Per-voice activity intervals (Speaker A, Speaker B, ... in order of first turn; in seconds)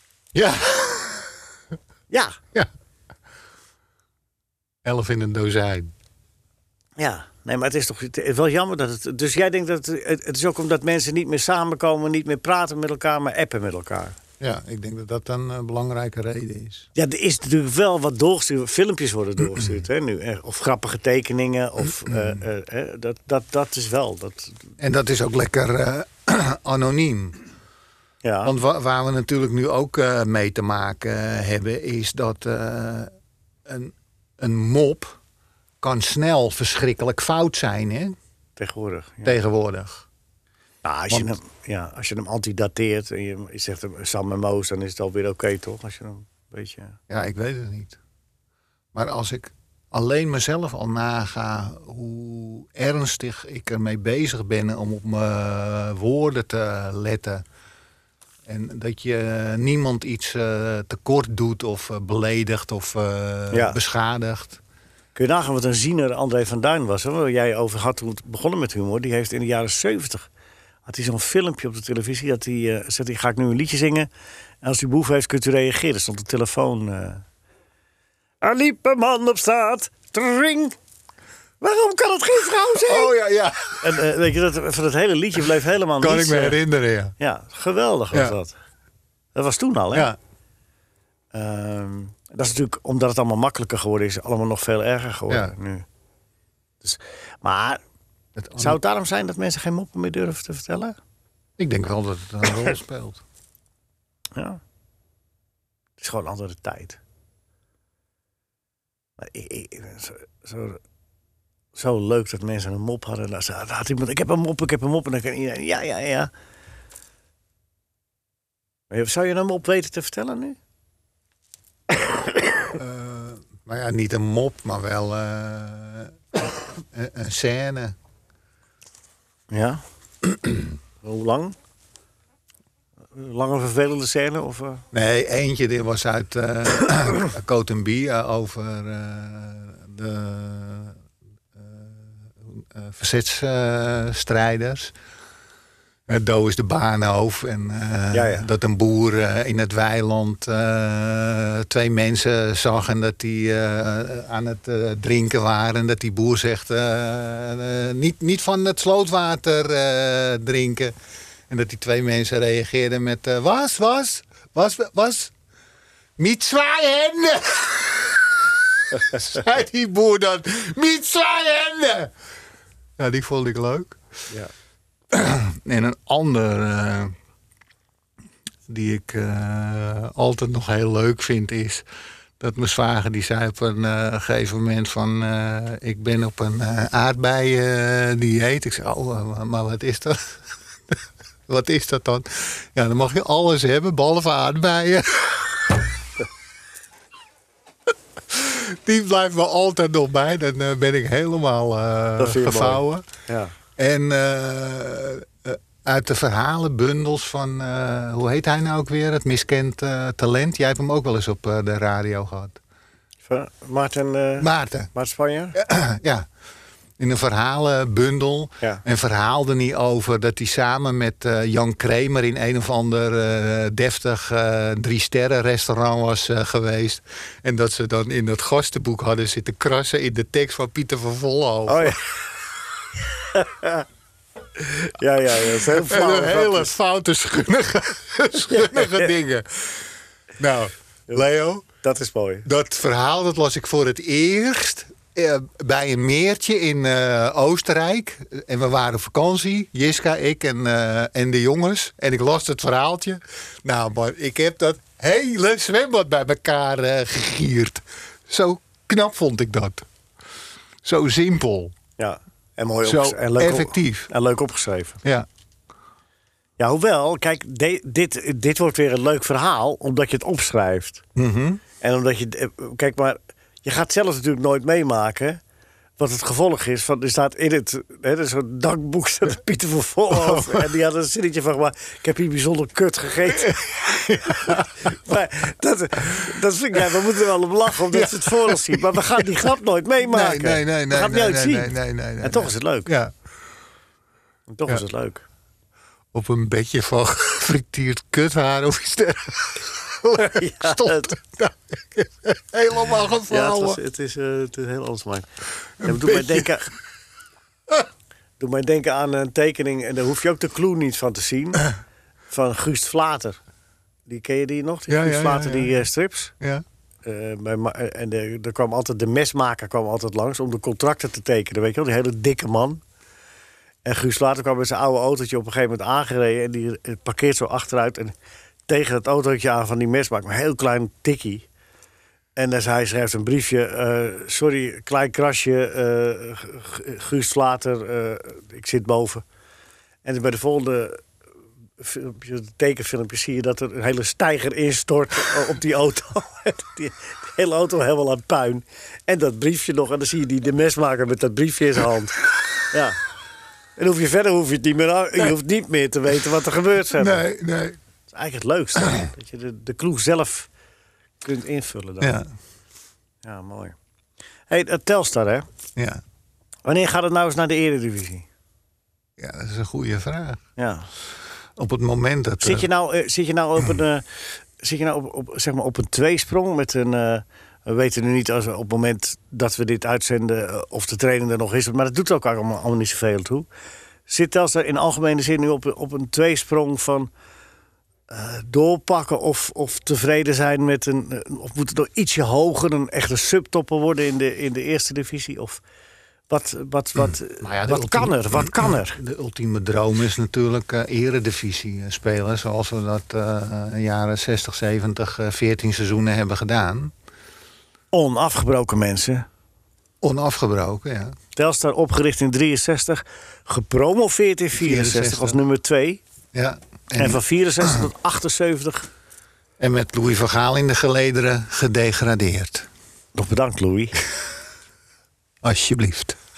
Speaker A: 0.3-1.3, 4.8-5.9, 14.4-16.9, 22.1-22.4, 24.8-27.4, 28.4-33.1, 33.7-35.2, 35.8-38.2, 39.2-40.1, 47.1-48.0, 48.9-57.4, 58.5-64.6, 82.8-84.2, 86.0-87.1, 98.4-98.8, 101.6-103.2, 122.7-128.0, 134.9-141.0, 141.6-144.9, 146.1-160.9, 161.5-165.3, 166.2-172.1, 173.0-174.0, 175.1-177.2, 178.7-181.8, 182.4-191.0, 191.5-195.8, 198.3-203.1, 203.8-212.6, 214.4-214.9, 215.6-216.3, 217.0-232.0, 235.6-241.7, 242.4-259.9, 260.8-261.7, 262.9-264.1, 271.2-271.6, 280.1-280.7, 283.4-284.9, 287.9-289.2, 290.0-293.1, 296.1-303.8, 305.8-306.5, 314.9-315.8, 356.9-357.8, 362.0-362.3, 365.8-366.0, 369.2-370.4, 371.6-372.7, 397.0-406.9, 410.0-411.2, 414.6-415.4, 416.3-417.9, 419.6-422.7, 425.4-426.2
Speaker B: 2.1-2.4, 7.0-14.2, 16.9-24.6, 28.2-28.5, 38.6-39.4, 40.8-47.0, 63.5-63.8, 65.2-70.3, 70.9-74.1, 74.6-77.2, 78.4-80.8, 81.6-83.1, 83.8-86.6, 87.2-88.6, 89.3-90.1, 91.3-95.9, 96.8-97.8, 98.6-101.0, 104.4-104.6, 106.0-107.0, 109.2-110.8, 111.8-116.3, 118.9-120.6, 129.5-129.8, 131.0-131.6, 133.1-134.8, 148.1-148.5, 202.2-203.5, 213.3-215.6, 231.7-232.1, 233.3-233.8, 234.6-236.7, 238.4-239.1, 241.8-242.5, 262.0-265.0, 266.6-271.0, 271.8-275.4, 276.0-292.9, 294.5-295.2, 300.2-301.1, 303.3-305.3, 305.8-306.7, 308.4-311.7, 312.3-313.4, 314.1-316.3, 317.1-322.8, 323.9-328.1, 328.7-331.5, 332.4-339.2, 340.1-341.0, 341.8-353.0, 353.8-357.2, 358.1-360.5, 361.2-362.2, 363.2-363.8, 364.5-365.5, 366.6-368.3, 370.6-370.9, 372.4-383.5, 384.1-387.1, 388.1-395.6, 396.3-399.0, 407.9-409.3, 411.4-416.0, 417.0-418.9, 423.1-424.0